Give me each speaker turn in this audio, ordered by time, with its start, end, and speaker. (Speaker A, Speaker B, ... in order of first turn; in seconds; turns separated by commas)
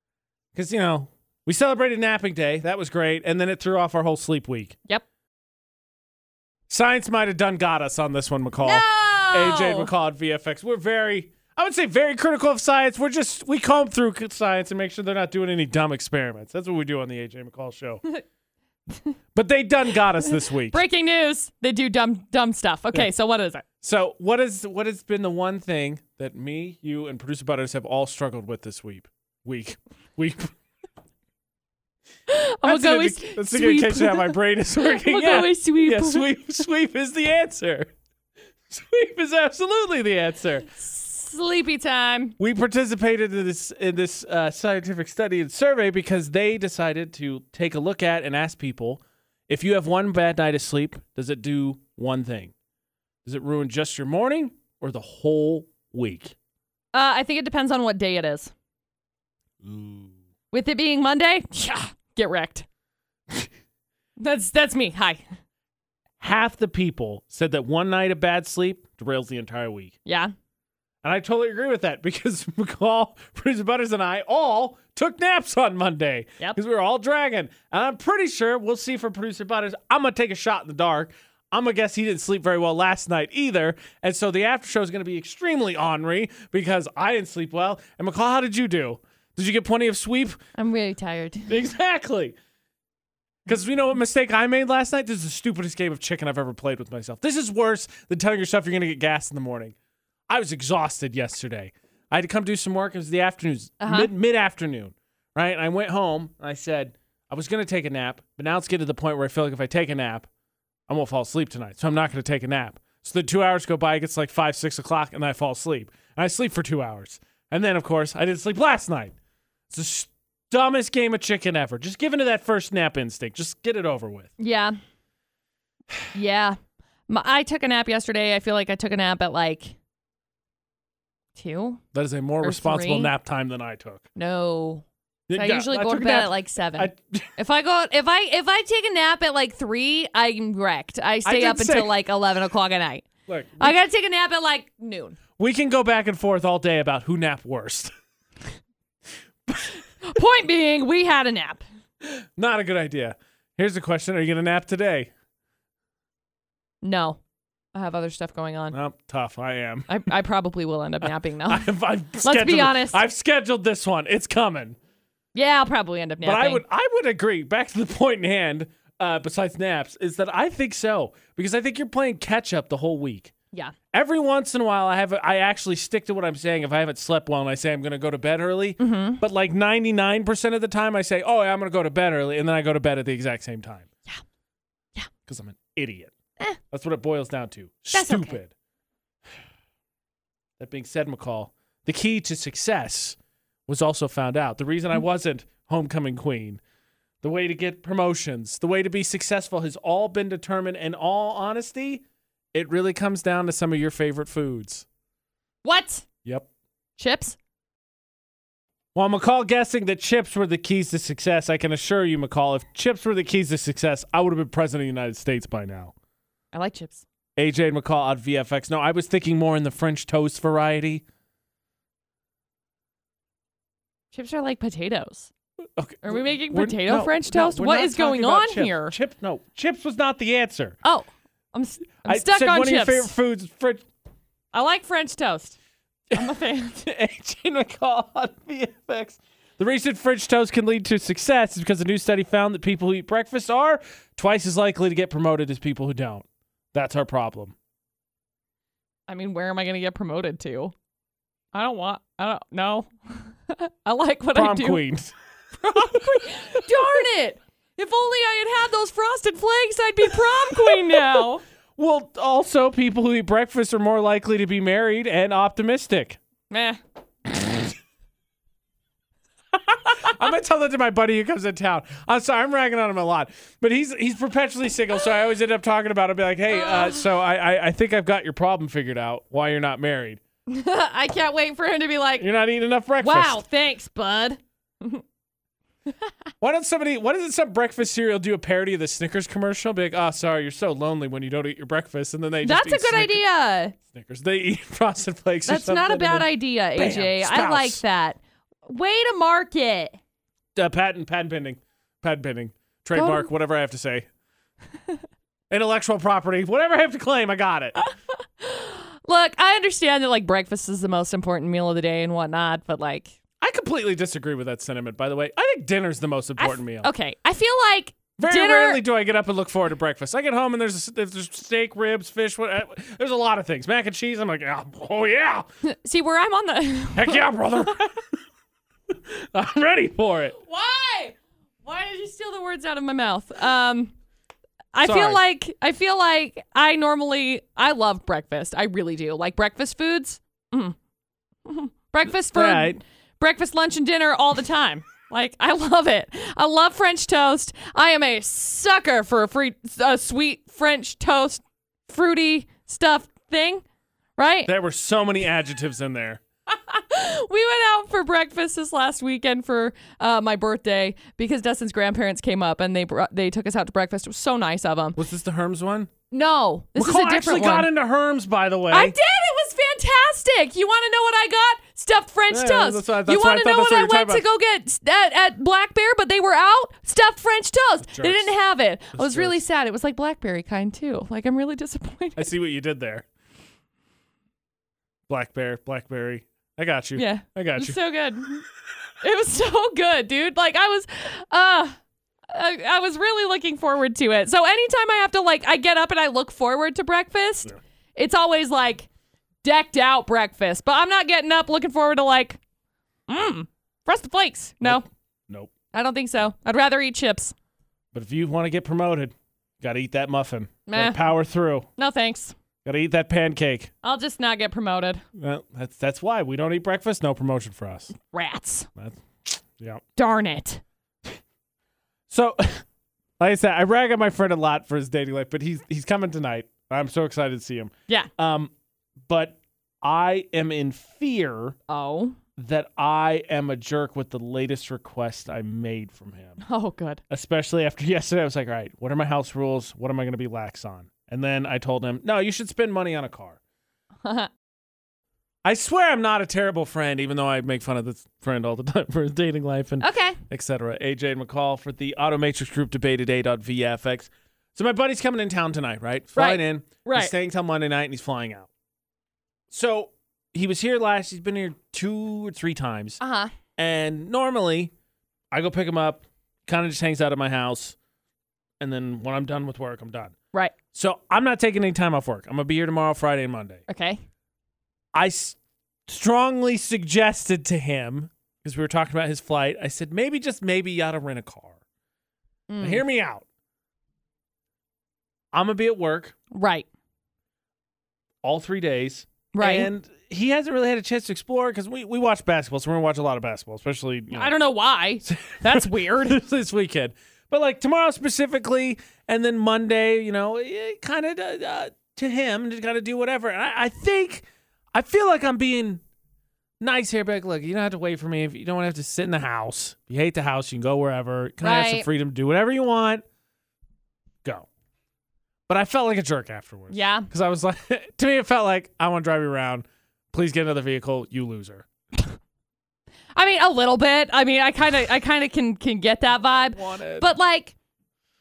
Speaker A: 0.5-4.8, Speaker A: 6.7-18.0, Speaker B: 8.6-9.9, Speaker A: 19.3-20.8, Speaker B: 20.7-23.6, Speaker A: 23.8-30.5, Speaker B: 32.3-36.2, Speaker A: 32.6-37.9, Speaker A: 38.7-40.7, Speaker B: 40.8-42.3, Speaker A: 42.4-52.5, Speaker A: 53.2-56.3, Speaker B: 56.9-58.5, Speaker A: 59.6-60.1, Speaker B: 60.5-62.6, Speaker B: 64.2-65.2, Speaker A: 66.2-69.9, Speaker B: 70.0-70.3, Speaker A: 71.0-90.4, Speaker B: 90.5-91.5, Speaker A: 91.5-92.3, Speaker A: 93.5-99.7, Speaker A: 100.3-110.3, Speaker B: 103.8-104.1, Speaker A: 110.9-119.1, Speaker A: 119.7-124.3, Speaker B: 124.4-124.8, Speaker B: 126.1-126.6, Speaker B: 127.1-129.8, Speaker B: 131.3-131.8, Speaker A: 131.9-134.1, Speaker B: 132.4-133.1, Speaker B: 134.2-143.1, Speaker A: 135.3-137.3, Speaker A: 141.2-141.9, Speaker A: 143.3-143.8, Speaker B: 143.6-145.2, Speaker A: 145.4-147.9, Speaker A: 149.5-149.8, Speaker B: 150.0-151.6, Speaker A: 152.0-155.1, Speaker B: 156.8-157.2, Speaker B: 157.7-158.8, Speaker A: 158.7-159.9, Speaker B: 159.9-161.7, Speaker A: 161.0-164.8, Speaker B: 162.2-163.0, Speaker B: 165.3-166.6, Speaker A: 166.2-173.3, Speaker A: 173.9-183.9, Speaker B: 178.8-179.2, Speaker A: 185.2-186.1, Speaker A: 186.7-188.5, Speaker B: 187.9-188.4, Speaker A: 190.6-196.6, Speaker A: 197.2-204.8, Speaker B: 205.6-206.1, Speaker B: 207.0-207.3, Speaker A: 208.9-215.9, Speaker B: 216.5-217.0, Speaker A: 217.4-221.0, Speaker B: 224.1-225.3, Speaker A: 225.8-230.8, Speaker B: 226.0-228.9, Speaker B: 230.8-233.1, Speaker A: 232.0-233.8, Speaker B: 234.5-235.6, Speaker A: 236.1-247.5, Speaker B: 236.1-236.8, Speaker B: 249.1-250.7, Speaker B: 251.5-254.8, Speaker A: 254.3-255.1, Speaker B: 255.6-261.4, Speaker A: 255.6-256.0, Speaker A: 260.5-261.2, Speaker A: 261.8-266.2, Speaker B: 266.5-266.8, Speaker A: 269.7-280.2, Speaker B: 276.5-277.0, Speaker B: 280.5-282.3, Speaker A: 282.2-283.4, Speaker B: 283.0-285.0, Speaker A: 286.4-293.2, Speaker B: 292.4-293.7, Speaker A: 293.9-297.8, Speaker B: 295.5-300.0, Speaker A: 300.6-304.1, Speaker B: 302.9-303.3, Speaker A: 305.5-307.8, Speaker B: 307.8-313.1, Speaker A: 313.4-316.9, Speaker B: 316.4-318.8, Speaker A: 318.2-325.5, Speaker B: 325.6-327.7, Speaker A: 326.9-327.9, Speaker A: 328.9-330.3, Speaker B: 330.4-333.9, Speaker B: 334.7-340.7, Speaker A: 334.8-335.2, Speaker B: 341.4-353.6, Speaker A: 342.3-342.8, Speaker B: 354.2-354.5, Speaker A: 354.4-356.2, Speaker B: 356.5-365.0, Speaker A: 364.9-365.9, Speaker B: 366.1-367.7, Speaker A: 366.8-368.9, Speaker B: 368.7-382.3, Speaker A: 372.3-374.2, Speaker A: 377.9-378.3, Speaker A: 378.9-379.4, Speaker A: 382.2-383.0, Speaker A: 385.1-387.8, Speaker B: 386.9-388.4, Speaker B: 389.0-391.8, Speaker B: 392.3-398.9, Speaker B: 399.4-402.4, Speaker B: 403.1-404.8, Speaker A: 404.6-405.5, Speaker B: 405.7-407.3, Speaker A: 407.9-411.7, Speaker B: 410.7-411.1, Speaker B: 411.8-412.3, Speaker A: 412.6-413.7, Speaker B: 413.8-415.0, Speaker A: 415.2-417.9, Speaker B: 418.1-418.7, Speaker A: 418.8-419.8, Speaker B: 419.9-420.6, Speaker A: 422.1-422.6, Speaker A: 423.2-428.5, Speaker A: 429.1-431.6, Speaker B: 431.7-432.2, Speaker A: 432.4-436.4, Speaker B: 436.4-437.0, Speaker A: 437.1-443.4, Speaker B: 444.0-444.3, Speaker A: 445.4-458.5, Speaker B: 449.8-450.2, Speaker B: 456.1-457.1, Speaker A: 459.5-463.0, Speaker B: 463.0-463.3, Speaker A: 463.6-464.7, Speaker A: 465.3-467.8, Speaker A: 468.6-470.1, Speaker A: 470.7-473.6, Speaker B: 473.7-474.0, Speaker A: 474.9-481.5, Speaker B: 482.5-482.8, Speaker A: 482.6-483.2, Speaker A: 485.3-486.1, Speaker B: 486.3-486.7, Speaker A: 488.2-494.3, Speaker B: 489.3-489.7, Speaker B: 494.1-496.2, Speaker A: 495.0-505.8, Speaker A: 506.6-513.0, Speaker B: 511.4-511.9, Speaker A: 515.5-521.6, Speaker B: 516.7-517.1, Speaker B: 523.1-527.5, Speaker A: 526.4-527.1